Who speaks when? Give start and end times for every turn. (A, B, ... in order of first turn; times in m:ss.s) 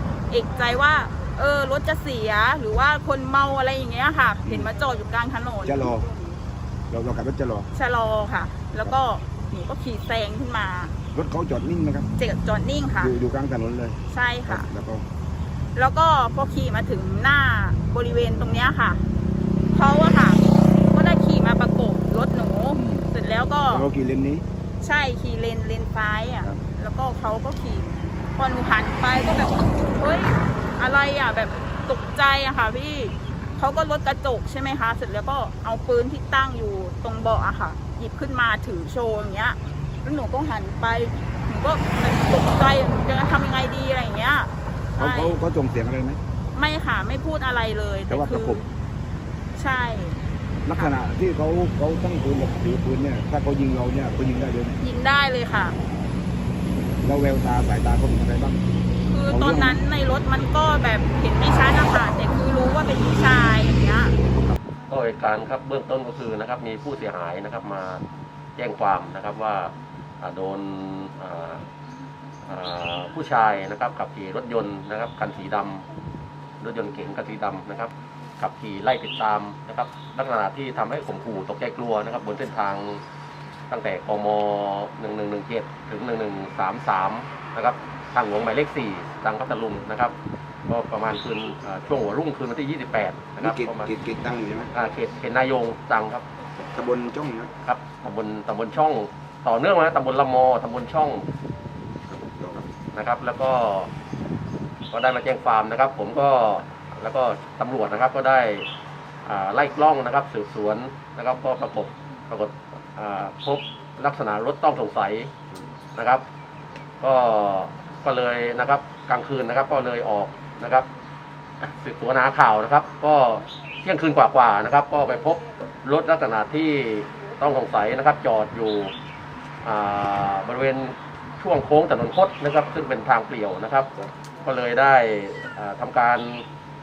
0:00.3-0:06.0 A
0:04.4-0:04.7 B
0:05.6-0:06.1 B
0:06.9-0:07.7 B
0:07.7-0:10.9 A
0:11.1-0:12.1 B
0:12.2-0:13.1 A
0:13.0-0:15.0 B
0:14.1-0:14.7 A
0:15.8-0:19.0 A
0:19.7-0:23.9 A
0:22.7-0:23.0 B
0:23.7-0:24.4 B
0:24.8-0:45.4 A
0:45.0-0:46.2 B
0:46.5-0:48.6 A
0:48.1-0:48.6 B
0:49.6-0:50.2 A
0:50.6-0:54.8 B
0:54.8-0:55.8 A
0:57.0-0:58.6 B
0:59.1-1:04.2 A
0:59.3-0:59.8 B
1:04.9-1:08.0 C
1:08.6-1:11.6 C
1:12.4-1:15.8 C
1:16.6-1:23.0 C
1:23.7-1:30.1 C
1:30.7-1:33.9 C
1:33.4-1:34.7 B
1:34.7-1:36.2 C
1:36.7-1:37.5 B
1:37.6-1:41.3 C
1:42.1-1:42.7 B
1:42.9-1:43.9 C
1:44.9-1:48.7 C
1:49.2-1:55.3 C
1:56.0-1:56.2 C
1:57.0-2:00.9 C
2:01.6-2:08.9 C
2:09.6-2:16.4 C